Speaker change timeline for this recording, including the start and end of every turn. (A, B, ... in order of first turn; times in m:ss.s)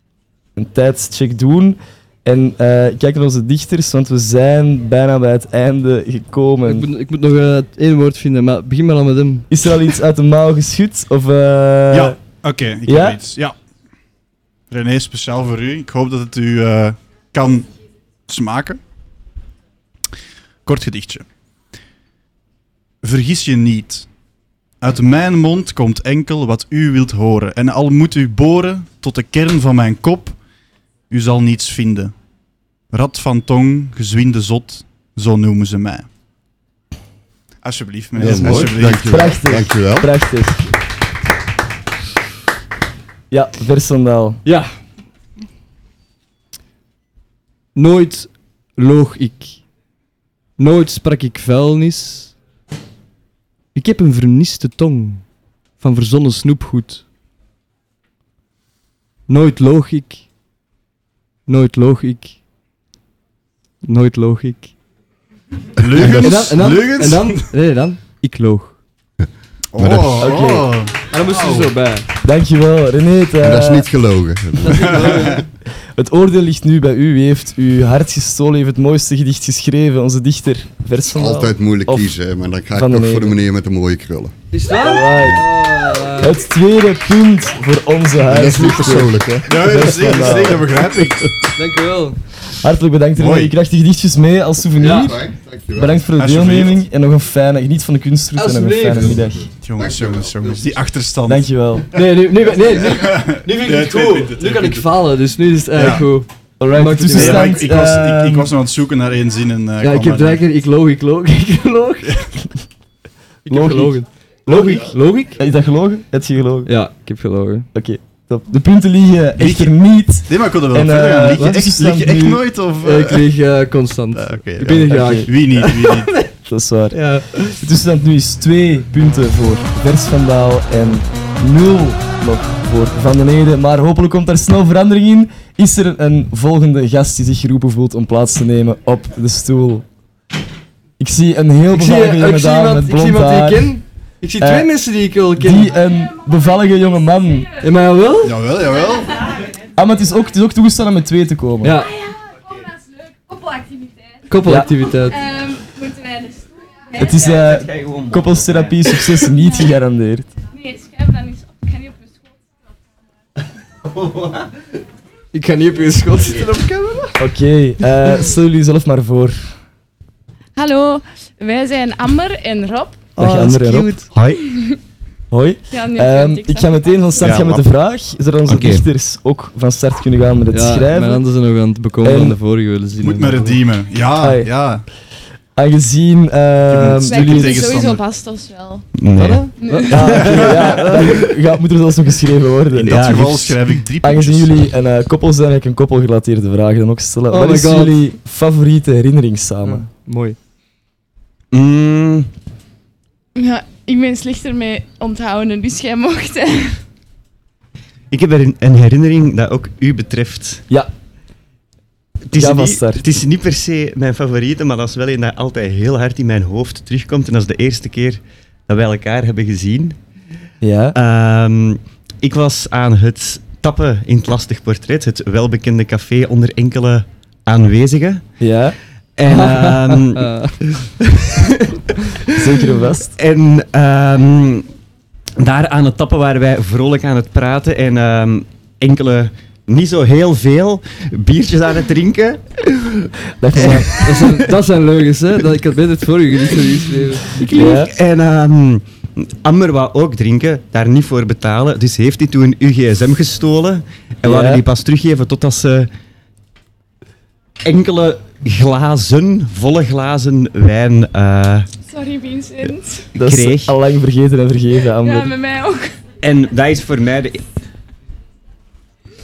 0:00.6-0:06.9 A
0:06.7-0:09.5 B
0:09.5-0:12.2 A
0:11.9-0:13.6 C
0:12.9-0:13.2 A
0:14.7-0:17.7 C
0:18.3-0:18.8 C
0:20.6-0:21.2 C
0:23.0-0:24.1 C
0:24.8-0:30.4 C
0:31.1-0:32.1 C
0:32.9-0:36.1 C
0:37.6-0:39.4 C
0:38.2-0:40.1 D
0:38.3-0:40.6 A
0:43.3-0:44.4 A
0:44.4-0:44.7 B
0:47.8-0:49.6 B
0:50.6-0:52.4 B
0:53.8-0:55.2 B
0:55.8-0:57.0 B
0:59.3-1:00.2 B
1:01.5-1:02.4 B
1:03.8-1:04.7 B
1:05.8-1:07.5 C
1:06.0-1:06.2 D
1:06.0-1:08.8 B
1:09.7-1:11.7 C
1:09.8-1:10.4 D
1:10.2-1:10.7 A
1:11.1-1:12.1 B
1:12.2-1:13.9 A
1:13.4-1:15.4 D
1:14.6-1:15.4 B
1:14.9-1:15.4 C
1:16.0-1:22.1 A
1:21.1-1:24.3 D
1:22.8-1:23.4 A
1:24.5-1:26.4 B
1:24.8-1:25.4 A
1:26.2-1:30.7 A
1:28.2-1:29.9 D
1:29.5-1:31.3 C
1:31.6-1:32.2 B
1:32.6-1:39.5 A
1:33.2-1:33.6 C
1:34.8-1:35.1 B
1:34.8-1:36.0 D
1:36.2-1:36.8 C
1:38.4-1:39.2 B
1:39.2-1:40.8 D
1:39.6-1:41.5 C
1:41.3-1:41.9 A
1:41.9-1:47.6 B
1:42.7-1:44.9 C
1:45.7-1:46.1 C
1:46.6-1:48.5 A
1:47.1-1:50.4 C
1:49.8-1:52.2 B
1:53.5-1:55.4 B
1:53.5-1:56.7 A
1:56.7-1:57.7 B
1:57.7-2:02.4 A
1:59.4-2:03.3 C
2:01.3-2:01.6 B
2:02.8-2:06.3 B
2:04.2-2:06.2 C
2:04.9-2:05.3 A
2:06.5-2:19.8 A
2:06.9-2:07.6 B
2:21.0-2:23.7 A
2:21.7-2:25.8 B
2:24.4-2:24.7 A
2:25.4-2:27.5 A
2:27.6-2:28.4 B
2:28.2-2:29.2 C
2:29.8-2:31.8 A
2:31.6-2:31.9 B
2:32.0-2:34.2 E
2:34.3-2:35.2 B
2:34.4-2:34.7 A
2:35.1-2:37.1 E
2:37.0-2:40.3 A
2:37.1-2:38.9 F
2:40.5-2:42.1 E
2:43.8-2:44.5 F
2:45.3-2:47.2 B
2:47.2-2:49.5 A
2:50.6-2:53.1 E
2:53.2-2:54.1 B
2:53.2-2:54.0 A
2:54.1-2:54.4 F
2:54.4-2:54.8 E
2:55.3-3:01.2 A
2:55.7-2:57.3 E
2:57.2-2:57.6 F
2:58.5-2:58.9 F
3:00.5-3:03.6 B
3:02.0-3:02.4 A
3:03.0-3:04.8 C
3:04.2-3:04.5 A
3:05.6-3:07.7 A
3:06.7-3:08.0 C
3:07.0-3:08.9 E
3:09.0-3:09.5 F
3:09.2-3:11.2 B
3:09.6-3:10.3 E
3:09.8-3:13.3 A
3:10.2-3:10.7 C
3:12.8-3:14.6 C
3:12.8-3:13.6 F
3:14.0-3:19.8 A
3:17.3-3:18.0 B
3:19.6-3:20.4 B
3:21.5-3:22.3 F
3:23.4-3:26.8 E
3:28.1-3:30.6 F
3:32.3-3:40.0 F
3:32.3-3:33.0 A
3:40.6-3:41.0 A
3:40.9-3:48.2 F
3:48.4-3:48.8 A
3:49.2-3:50.3 F
3:49.3-3:50.6 B
3:50.8-3:51.8 F
3:52.3-3:53.1 A
3:53.2-3:54.7 F
3:55.4-4:03.1 F
4:03.4-4:04.5 A
4:03.6-4:07.4 B
4:07.5-4:07.9 A
4:07.6-4:15.9 F
4:14.2-4:14.6 A
4:17.6-4:21.7 F
4:21.9-4:23.1 E
4:23.2-4:23.8 F
4:23.2-4:25.3 A
4:25.0-4:26.0 E
4:26.2-4:27.4 F